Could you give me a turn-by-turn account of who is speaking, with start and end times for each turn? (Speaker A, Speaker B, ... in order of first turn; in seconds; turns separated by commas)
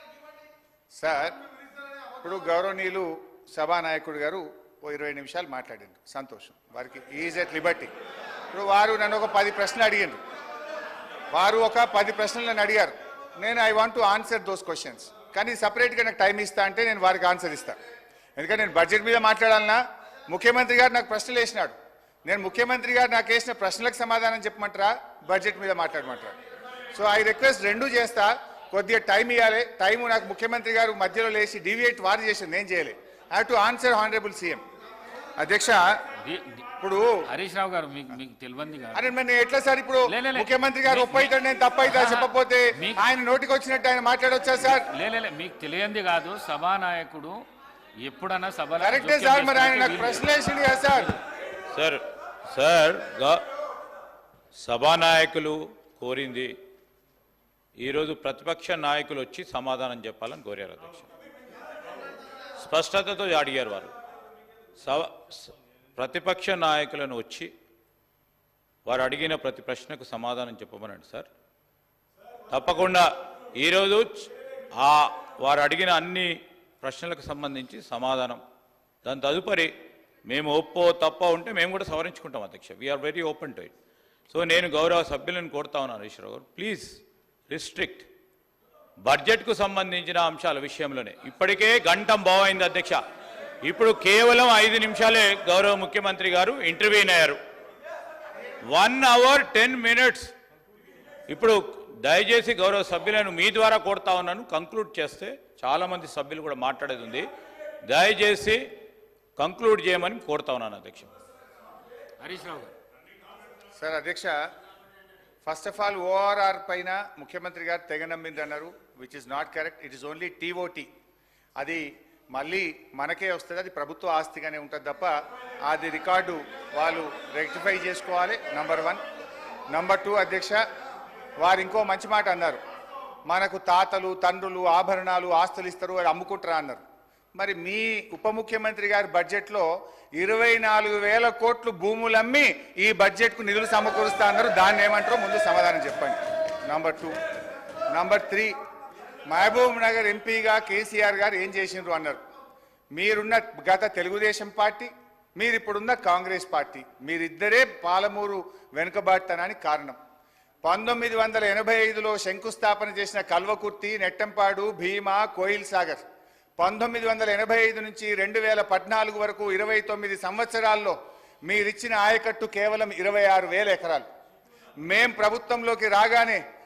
Speaker A: 1.0-1.4, Speaker A: 2.2-7.9, Speaker A: 8.5-10.2, Speaker A: 11.3-17.8, Speaker A: 18.4-19.8, Speaker A: 20.3-21.8, Speaker A: 22.2-26.3, Speaker A: 26.9-34.6, Speaker A: 35.4-35.9, Speaker B: 36.2-36.6, Speaker A: 36.8-37.2, Speaker B: 37.3-39.1, Speaker A: 38.9-44.9, Speaker B: 40.1-41.3, Speaker B: 41.8-43.0, Speaker B: 44.6-47.4, Speaker B: 48.0-50.3, Speaker A: 48.8-51.1, Speaker C: 51.7-53.4, Speaker C: 54.6-56.5, Speaker C: 57.8-61.1, Speaker C: 62.6-63.9, Speaker C: 64.8-67.5, Speaker C: 68.9-71.3, Speaker C: 72.5-73.0, Speaker C: 73.6-78.4, Speaker C: 79.0-79.7, Speaker C: 80.3-83.7, Speaker C: 84.3-87.0, Speaker C: 87.5-88.1, Speaker C: 89.0-93.0, Speaker C: 93.7-97.4, Speaker C: 98.7-100.3, Speaker C: 101.3-107.3, Speaker C: 107.9-108.6, Speaker C: 109.4-111.1, Speaker B: 112.2-112.7, Speaker A: 113.8-114.3, Speaker A: 115.5-120.9, Speaker A: 121.6-125.1, Speaker A: 125.7-129.0, Speaker A: 129.7-130.6, Speaker A: 131.4-132.6, Speaker A: 133.3-136.8, Speaker A: 137.3-147.1, Speaker A: 147.9-148.5, Speaker A: 149.3-152.2, Speaker A: 152.9-160.0, Speaker A: 160.6-166.0, Speaker A: 166.6-174.1, Speaker A: 174.8-176.4